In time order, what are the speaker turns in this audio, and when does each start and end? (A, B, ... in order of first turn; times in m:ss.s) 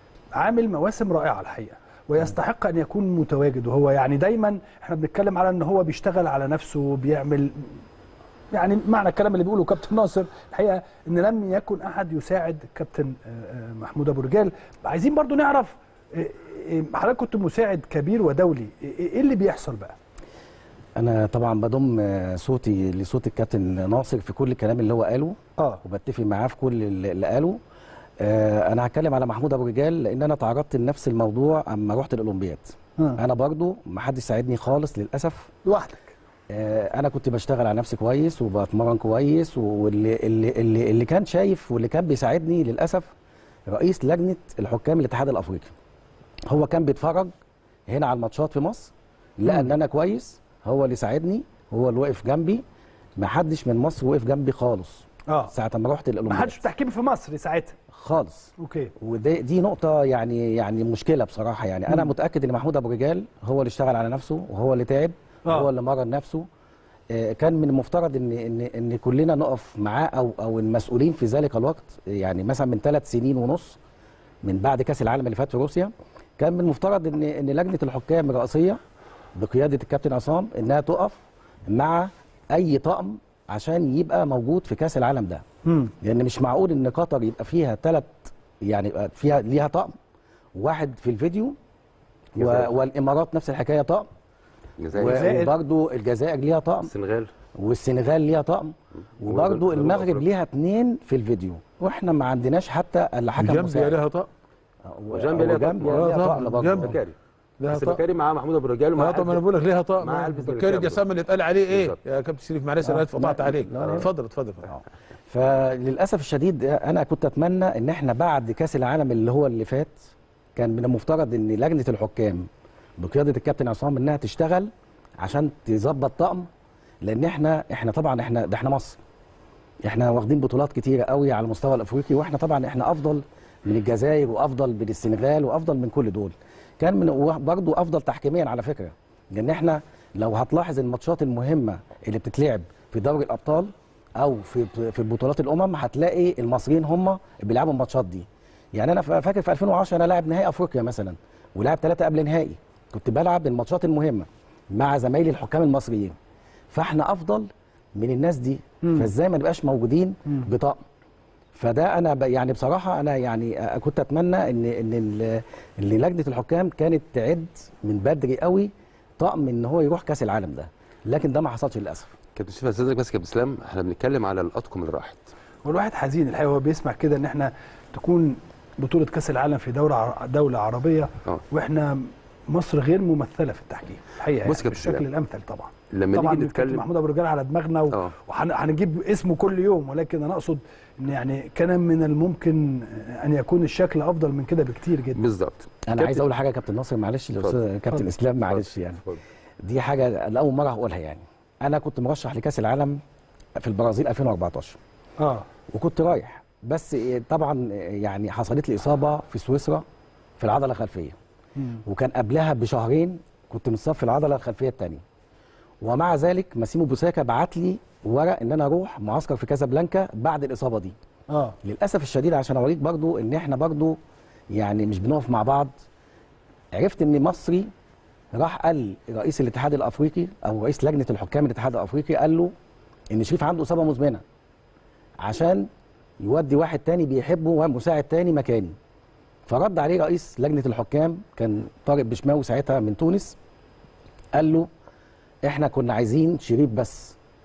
0:00.3-0:07.8 A
0:08.5-0:19.9 A
0:21.0-0:27.6 B
0:28.2-0:35.5 B
0:35.6-0:36.1 A
0:36.5-0:43.1 B
0:43.7-0:45.7 B
0:46.5-0:47.3 B
0:47.9-0:52.6 B
0:53.2-0:56.6 B
0:56.3-0:57.8 A
0:57.9-1:06.4 B
0:58.6-0:58.9 A
1:07.1-1:13.8 B
1:14.4-1:18.8 B
1:19.3-1:25.4 B
1:25.6-1:25.9 A
1:26.0-1:29.9 B
1:30.5-1:31.6 B
1:32.3-1:34.1 B
1:32.4-1:32.7 C
1:34.8-1:35.2 C
1:34.9-1:36.9 B
1:35.0-1:35.5 A
1:36.8-1:37.3 C
1:37.6-1:44.0 B
1:39.2-1:40.2 C
1:43.4-1:44.3 D
1:44.8-1:47.0 B
1:45.1-1:47.2 C
1:45.8-1:47.0 D
1:47.6-1:48.0 D
1:47.7-1:49.4 C
1:48.9-1:54.7 D
1:50.0-1:51.0 C
1:51.7-1:52.0 C
1:52.8-1:54.1 B
1:53.8-1:54.0 C
1:54.7-2:00.0 B
2:00.6-2:06.5 B
2:07.0-2:09.0 B
2:09.8-2:36.2 B
2:36.7-2:40.8 B
2:41.5-2:52.1 B
2:52.4-2:55.3 C
2:55.6-3:15.2 A
3:04.4-3:05.0 C
3:05.9-3:06.8 C
3:15.1-3:16.2 C
3:15.8-3:19.0 B
3:17.4-3:17.6 C
3:18.5-3:19.2 C
3:19.6-3:23.0 B
3:23.6-3:24.8 B
3:25.2-3:25.4 A
3:25.7-3:29.8 B
3:30.4-3:31.1 B
3:31.6-3:31.8 A
3:31.8-3:35.0 B
3:35.8-3:40.9 B
3:41.3-3:41.6 A
3:41.6-3:44.0 B
3:44.5-3:45.7 B
3:46.7-3:47.7 B
3:48.3-3:52.5 B
3:53.1-3:54.2 B
3:55.2-3:55.7 B
3:56.2-3:58.7 B
3:59.5-4:03.4 B
4:04.3-4:04.7 B
4:05.4-4:07.2 B